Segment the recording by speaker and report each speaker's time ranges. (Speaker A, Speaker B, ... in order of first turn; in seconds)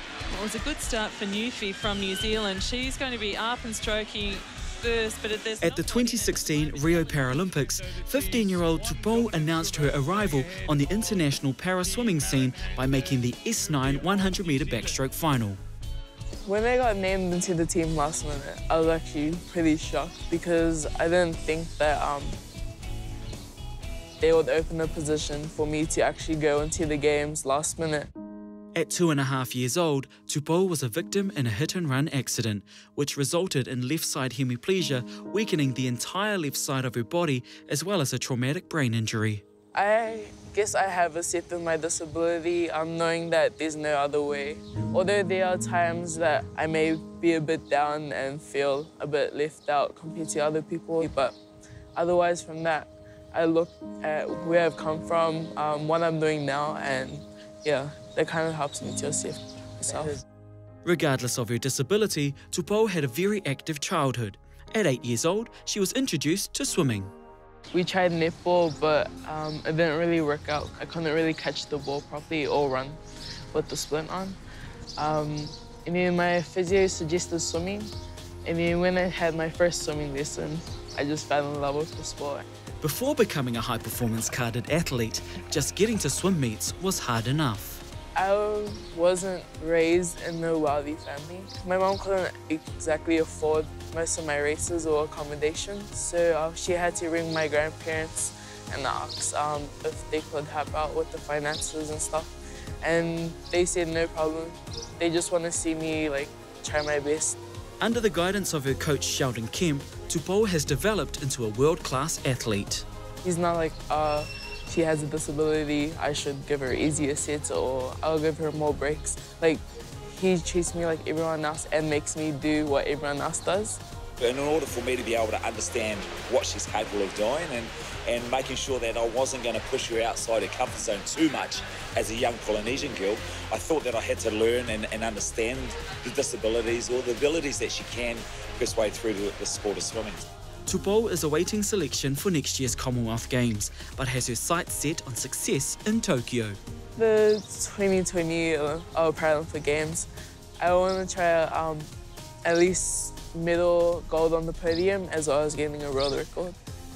Speaker A: 0.3-5.8
Speaker B: 5.6-15.6, 28.7-39.4, 60.8-67.1, 82.8-87.8, 107.8-112.8, 140.7-146.6
Speaker C: 16.4-22.4, 24.2-28.1, 39.7-51.4, 52.0-60.2, 67.7-73.0, 73.5-74.4, 75.0-77.9, 78.4-82.5, 88.1-107.4, 113.2-123.8, 146.9-150.1, 150.6-151.9, 152.4-156.6
Speaker D: 124.2-140.2